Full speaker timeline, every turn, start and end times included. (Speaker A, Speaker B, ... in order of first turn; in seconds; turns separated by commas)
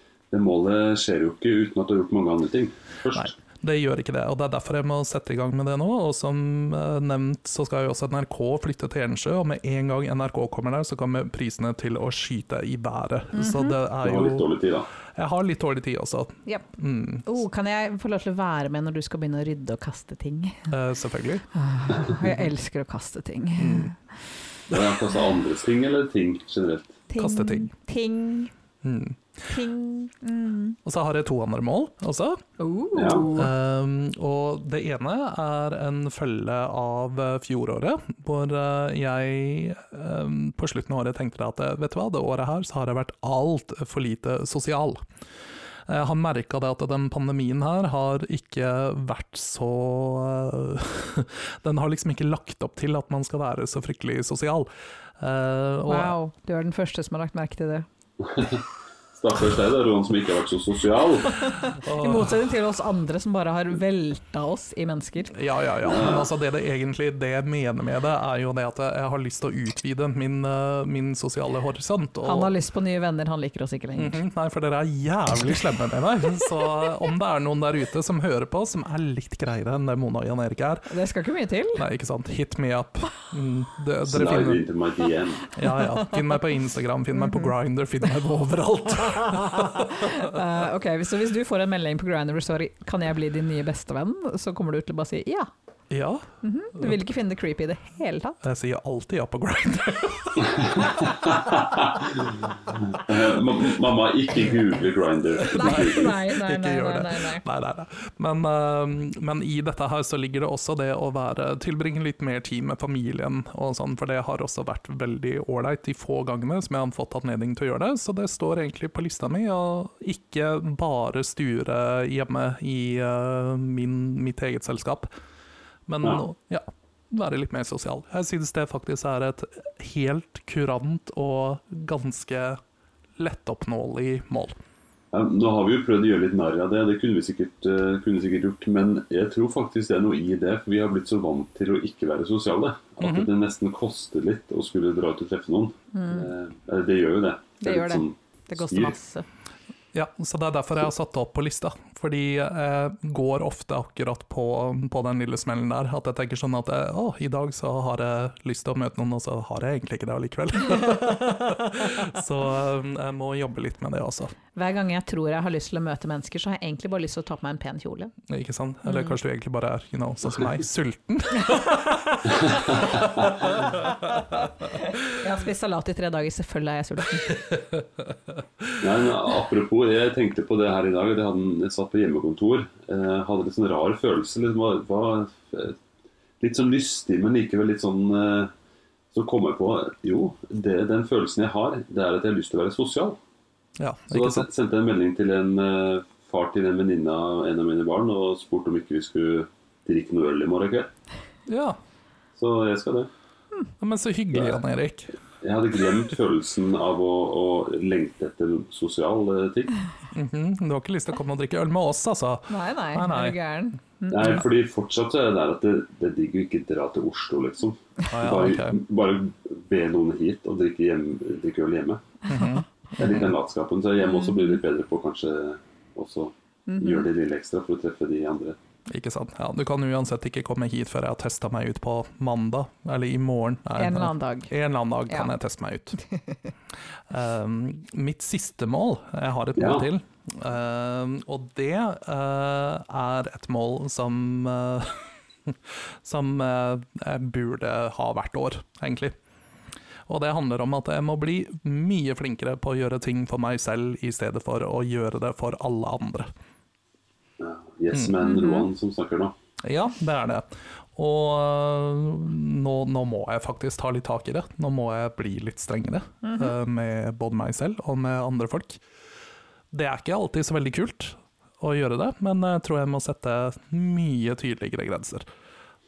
Speaker A: 0.3-3.3, Speaker B: 3.1-14.5, Speaker C: 13.3-13.8, Speaker A: 14.0-14.9, Speaker B: 15.1-17.2, Speaker C: 17.2-20.7, Speaker B: 20.7-21.4, Speaker C: 21.5-24.0, Speaker B: 23.6-23.9, Speaker A: 24.7-27.0, Speaker C: 27.1-28.5, Speaker B: 27.2-27.7, Speaker B: 28.8-29.2, Speaker C: 29.5-30.8, Speaker B: 30.8-32.4, Speaker C: 32.6-33.5, Speaker A: 32.9-33.3, Speaker B: 33.3-45.0, Speaker B: 45.9-54.7, Speaker B: 55.2-56.1, Speaker C: 55.9-57.9, Speaker A: 58.2-58.6, Speaker A: 59.1-61.3, Speaker C: 61.3-65.3, Speaker B: 61.8-62.4, Speaker B: 65.3-72.5, Speaker A: 65.8-66.3, Speaker C: 72.2-74.2, Speaker B: 74.0-80.9, Speaker C: 80.9-81.8, Speaker B: 81.8-84.6, Speaker A: 84.0-85.5, Speaker B: 85.5-90.4, Speaker C: 87.2-87.5, Speaker C: 89.1-95.5, Speaker B: 95.9-96.2, Speaker C: 96.4-98.4, Speaker B: 96.8-97.0, Speaker B: 98.4-101.1, Speaker A: 100.5-106.1, Speaker C: 105.4-107.4, Speaker B: 105.4-125.1, Speaker B: 125.9-132.6, Speaker B: 133.2-134.6, Speaker A: 135.1-148.9, Speaker B: 143.0-143.3, Speaker C: 145.9-146.3, Speaker C: 147.6-149.2, Speaker B: 149.9-164.3, Speaker C: 164.5-168.1, Speaker B: 168.3-174.5, Speaker C: 168.9-169.1, Speaker A: 172.3-173.3, Speaker C: 174.7-177.4, Speaker B: 177.4-177.8, Speaker A: 178.8-185.8, Speaker A: 186.4-188.5, Speaker A: 189.1-193.2, Speaker B: 193.8-194.5, Speaker A: 194.1-200.9, Speaker B: 201.5-201.8, Speaker A: 202.3-203.1, Speaker B: 203.8-205.1, Speaker A: 205.4-209.8, Speaker B: 210.1-213.3, Speaker C: 212.5-214.3, Speaker A: 214.1-222.0, Speaker B: 218.1-218.8, Speaker B: 222.3-223.3, Speaker A: 223.0-228.6, Speaker C: 226.7-227.1, Speaker B: 228.9-236.0, Speaker C: 233.8-234.5, Speaker C: 236.1-236.4, Speaker B: 237.1-249.1, Speaker A: 239.6-239.9, Speaker B: 250.1-256.3, Speaker A: 257.4-259.3, Speaker C: 258.3-258.6, Speaker B: 259.6-268.8, Speaker C: 266.2-266.5, Speaker B: 269.7-275.2